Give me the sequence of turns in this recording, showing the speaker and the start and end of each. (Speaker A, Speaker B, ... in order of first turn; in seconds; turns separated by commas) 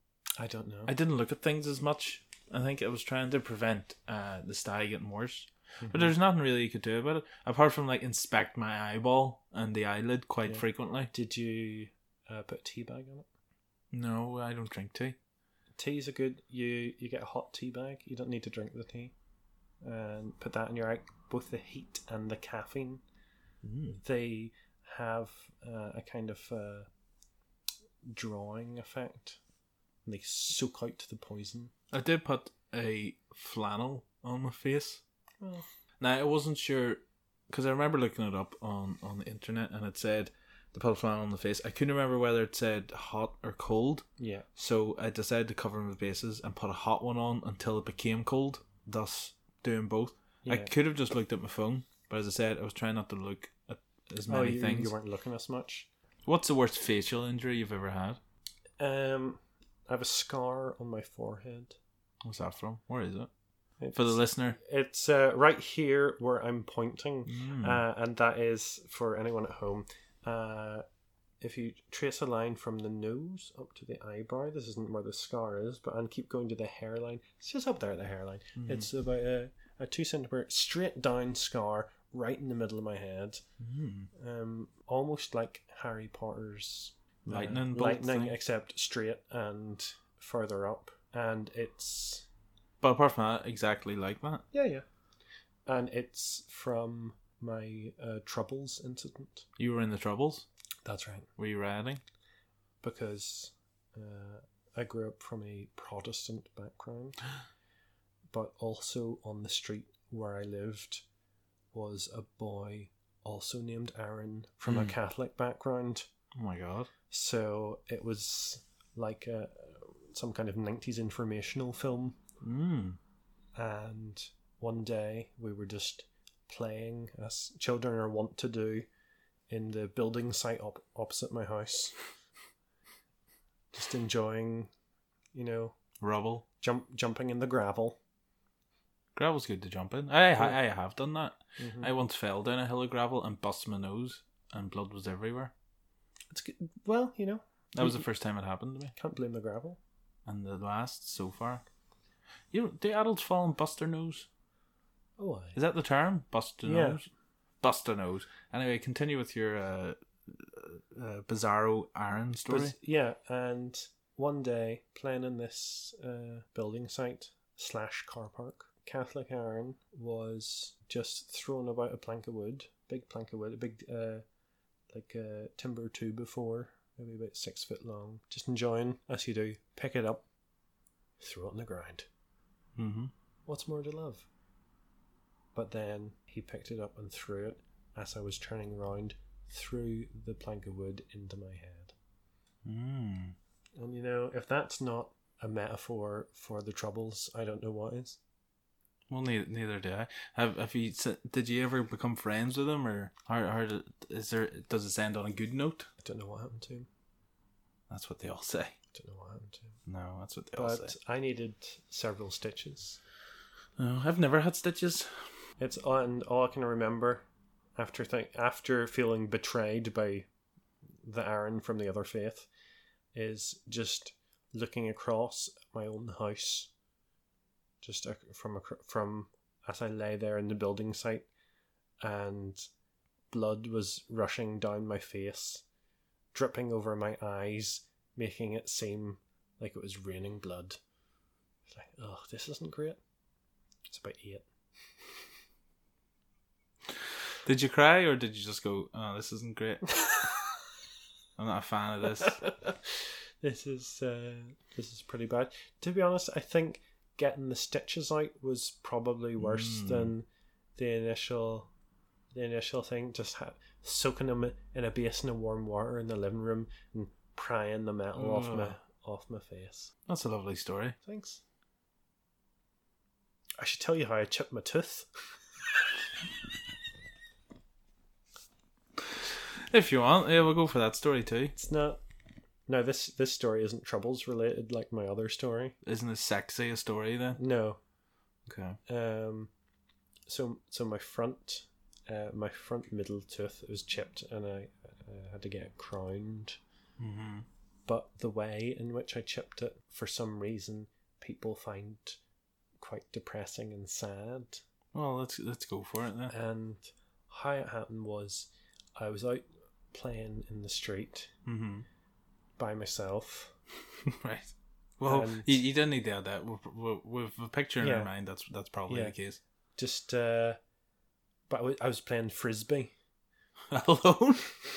Speaker A: 0.4-0.9, Speaker B: 0.9-11.1, Speaker A: 5.8-6.1, Speaker A: 10.5-13.3, Speaker B: 13.9-15.2, Speaker A: 15.8-19.1, Speaker A: 19.8-23.0, Speaker B: 23.6-24.0, Speaker A: 24.0-26.9, Speaker A: 28.0-29.4, Speaker A: 30.1-31.7, Speaker B: 31.9-35.0, Speaker A: 35.4-35.7, Speaker B: 36.0-54.9, Speaker A: 44.2-44.5, Speaker A: 50.5-50.7, Speaker A: 54.3-55.9, Speaker B: 56.3-58.2, Speaker A: 58.8-61.8, Speaker B: 62.2-63.3, Speaker A: 63.8-70.8, Speaker B: 63.9-64.6, Speaker B: 67.3-67.8, Speaker A: 71.4-83.4, Speaker B: 78.6-78.9, Speaker B: 83.6-84.1, Speaker A: 84.1-92.3, Speaker B: 87.3-88.4, Speaker B: 92.8-94.4, Speaker A: 94.5-94.8, Speaker A: 95.7-99.5, Speaker B: 99.6-100.5, Speaker A: 100.8-101.3, Speaker B: 101.4-102.0, Speaker A: 102.8-107.2, Speaker A: 108.3-111.0, Speaker A: 111.7-116.1, Speaker B: 114.7-115.0, Speaker B: 116.3-116.9, Speaker A: 117.1-122.2, Speaker B: 122.4-123.0, Speaker A: 123.5-128.9, Speaker A: 129.5-132.0, Speaker A: 133.7-134.7, Speaker A: 135.3-135.8, Speaker B: 136.0-136.4, Speaker A: 136.6-138.0, Speaker B: 139.2-145.5, Speaker A: 141.6-141.9, Speaker A: 146.3-148.0, Speaker B: 147.8-148.9, Speaker A: 149.0-149.8, Speaker B: 150.3-151.6, Speaker B: 152.5-154.3, Speaker A: 155.2-155.6, Speaker B: 155.6-157.0, Speaker A: 156.7-157.0, Speaker B: 157.6-162.8, Speaker A: 162.5-174.2, Speaker A: 174.9-180.2, Speaker A: 181.2-182.1, Speaker B: 182.8-183.1, Speaker A: 183.5-184.3, Speaker A: 185.6-191.9, Speaker B: 192.7-193.3, Speaker A: 193.8-198.2, Speaker B: 199.1-205.9, Speaker A: 206.0-206.9, Speaker B: 207.9-208.7, Speaker A: 208.9-209.8, Speaker B: 209.9-210.9, Speaker A: 210.6-213.0, Speaker B: 213.8-215.1, Speaker A: 215.6-217.2, Speaker A: 217.8-220.3, Speaker A: 221.0-222.5, Speaker A: 223.1-226.7, Speaker A: 227.8-231.3, Speaker A: 232.0-232.6, Speaker A: 233.3-235.6, Speaker A: 236.3-240.8, Speaker A: 241.7-243.0, Speaker A: 243.9-244.5, Speaker B: 247.4-250.2, Speaker B: 251.4-252.4, Speaker A: 252.2-252.8, Speaker A: 253.4-261.7, Speaker B: 259.4-260.1, Speaker A: 262.3-269.9, Speaker B: 268.2-268.8, Speaker B: 270.1-271.0, Speaker A: 271.0-271.4, Speaker A: 273.6-275.1, Speaker B: 279.4-281.5, Speaker A: 281.6-282.0, Speaker A: 282.7-285.8, Speaker B: 285.8-287.4, Speaker A: 287.4-287.8, Speaker B: 288.5-288.8, Speaker A: 288.9-289.5, Speaker A: 290.3-296.6, Speaker B: 297.0-297.5, Speaker A: 297.9-302.2, Speaker A: 302.8-304.6, Speaker B: 304.9-306.3, Speaker A: 306.3-311.3, Speaker B: 311.5-311.9, Speaker A: 312.6-313.5, Speaker B: 314.0-319.4, Speaker A: 315.1-315.5, Speaker A: 317.8-318.1, Speaker A: 318.9-319.1, Speaker A: 319.8-320.6, Speaker A: 321.5-322.9, Speaker B: 323.7-324.5